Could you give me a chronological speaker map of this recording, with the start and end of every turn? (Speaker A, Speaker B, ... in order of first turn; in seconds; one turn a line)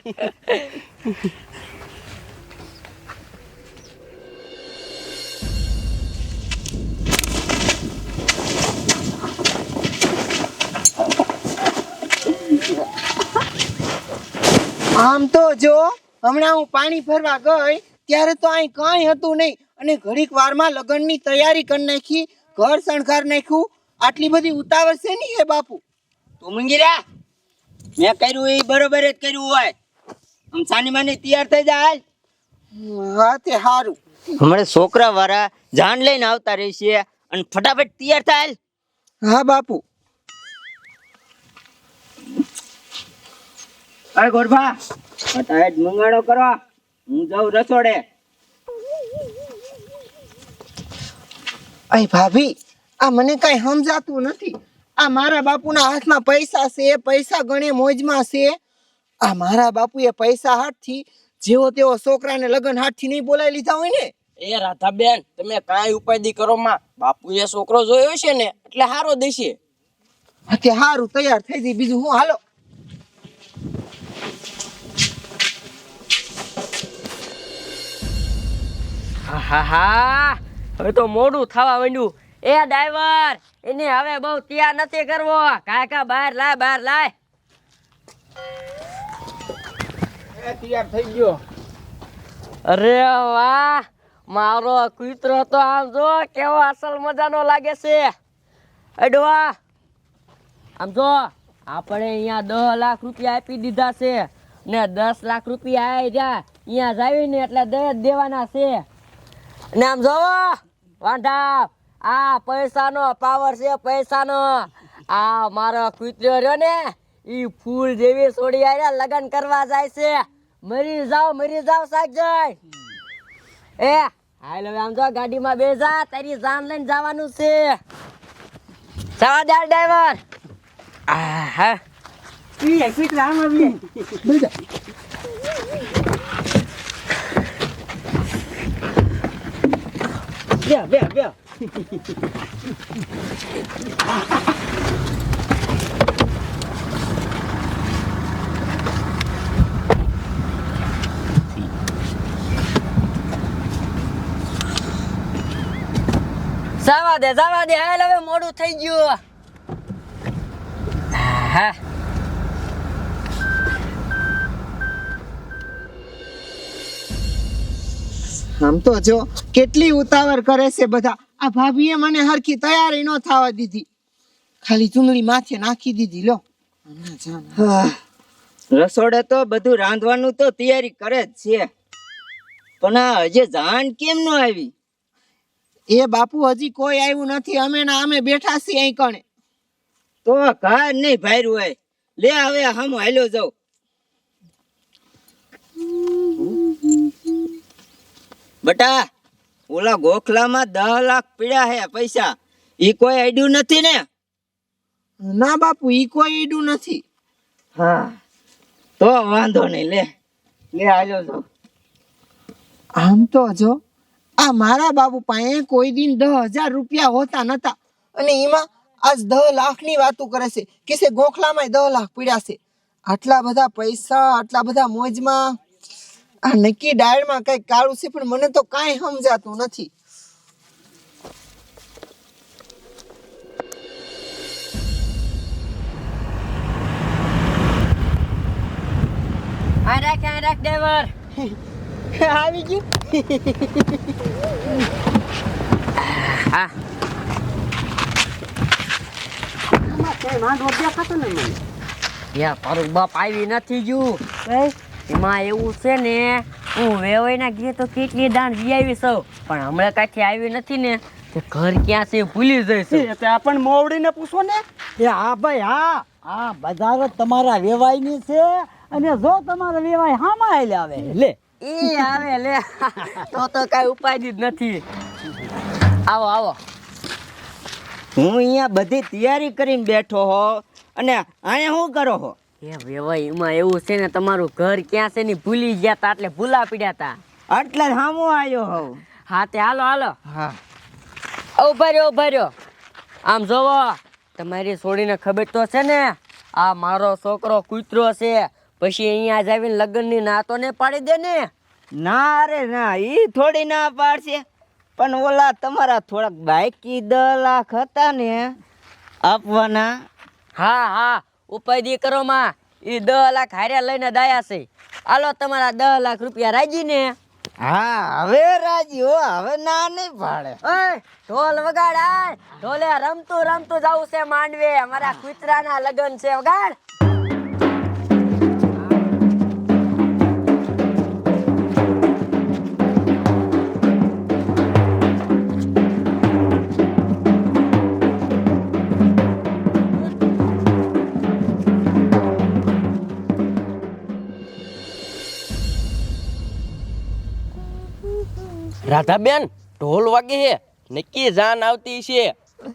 Speaker A: 0.2-0.8
Speaker B: 15.0-25.8
Speaker C: 26.4-26.9
Speaker C: 28.0-29.7
Speaker C: 30.5-32.0
Speaker B: 32.8-34.0
Speaker C: 34.4-38.6
Speaker B: 39.2-39.8
Speaker C: 44.2-44.7
Speaker C: 45.3-46.6
Speaker C: 47.1-48.0
Speaker B: 51.9-58.6
Speaker B: 59.2-64.1
Speaker D: 64.4-69.6
Speaker B: 70.5-72.4
Speaker A: 79.3-87.1
Speaker A: 92.7-98.1
Speaker A: 99.0-99.5
Speaker A: 100.8-108.8
Speaker A: 109.7-122.6
Speaker A: 123.8-127.8
Speaker A: 129.2-130.2
Speaker A: 131.1-131.8
Speaker C: 132.6-133.7
Speaker A: 156.8-159.2
Speaker A: 161.1-161.8
Speaker B: 168.6-173.9
Speaker B: 174.6-177.6
Speaker C: 178.7-181.7
Speaker C: 182.8-184.7
Speaker B: 185.9-189.2
Speaker C: 190.3-193.5
Speaker C: 198.6-199.1
Speaker C: 199.7-204.1
Speaker B: 205.2-207.0
Speaker C: 207.8-208.2
Speaker C: 209.0-210.1
Speaker C: 210.7-211.4
Speaker B: 213.0-213.8
Speaker B: 214.4-225.6
Speaker B: 226.5-229.9
Speaker A: 239.8-241.1
Speaker A: 246.0-246.7
Speaker A: 252.3-254.2
Speaker A: 255.1-263.1
Speaker E: 262.9-264.6
Speaker E: 265.8-266.0
Speaker F: 266.4-267.8
Speaker F: 270.6-271.1
Speaker A: 271.6-274.8
Speaker A: 276.1-276.6
Speaker C: 278.2-282.4
Speaker A: 282.6-287.2
Speaker C: 287.5-289.0
Speaker A: 289.3-290.2
Speaker C: 290.3-290.6
Speaker A: 291.6-292.5
Speaker A: 293.3-301.5
Speaker C: 302.0-304.4
Speaker C: 305.0-308.5
Speaker C: 309.2-309.9
Speaker A: 310.6-317.2
Speaker C: 317.6-320.6
Speaker A: 320.6-326.8
Speaker D: 348.9-352.3